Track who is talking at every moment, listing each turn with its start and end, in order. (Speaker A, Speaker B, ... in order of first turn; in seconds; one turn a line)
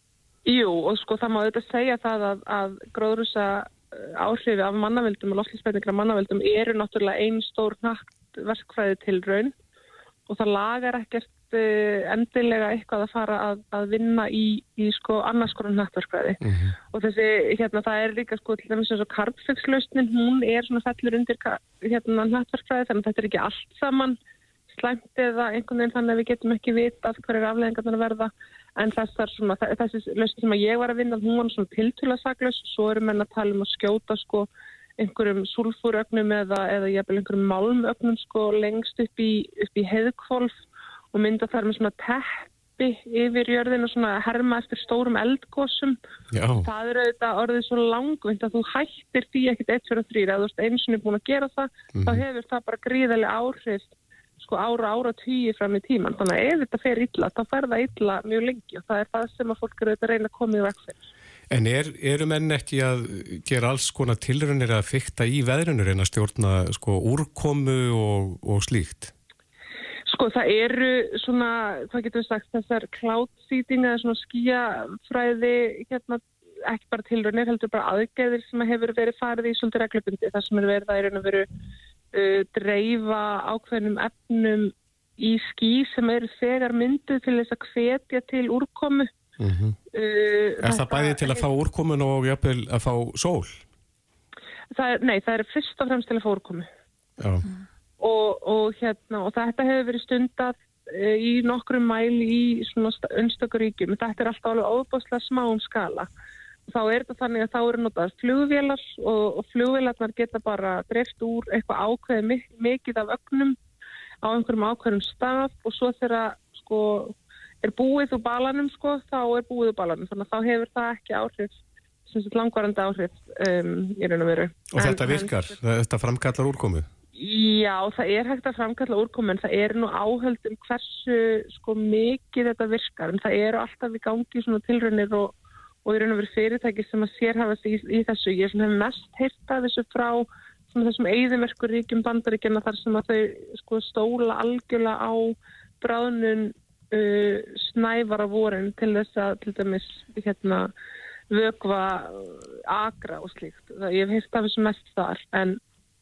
Speaker A: 0.5-9.5
Speaker A: 10.3-16.4
Speaker B: 16.4-16.8
Speaker A: 16.9-24.2
Speaker A: 24.7-40.5
Speaker A: 41.1-46.0
Speaker B: 46.3-46.7
Speaker A: 46.6-61.0
Speaker B: 51.9-52.2
Speaker B: 61.5-69.1
Speaker A: 70.1-81.5
Speaker A: 82.1-89.1
Speaker B: 89.4-89.8
Speaker A: 89.9-91.4
Speaker B: 90.6-93.6
Speaker A: 94.7-96.7
Speaker B: 97.2-97.4
Speaker A: 98.0-106.1
Speaker A: 106.7-113.5
Speaker A: 114.2-121.5
Speaker A: 122.1-125.4
Speaker B: 124.7-126.9
Speaker A: 127.2-150.7
Speaker A: 151.3-155.6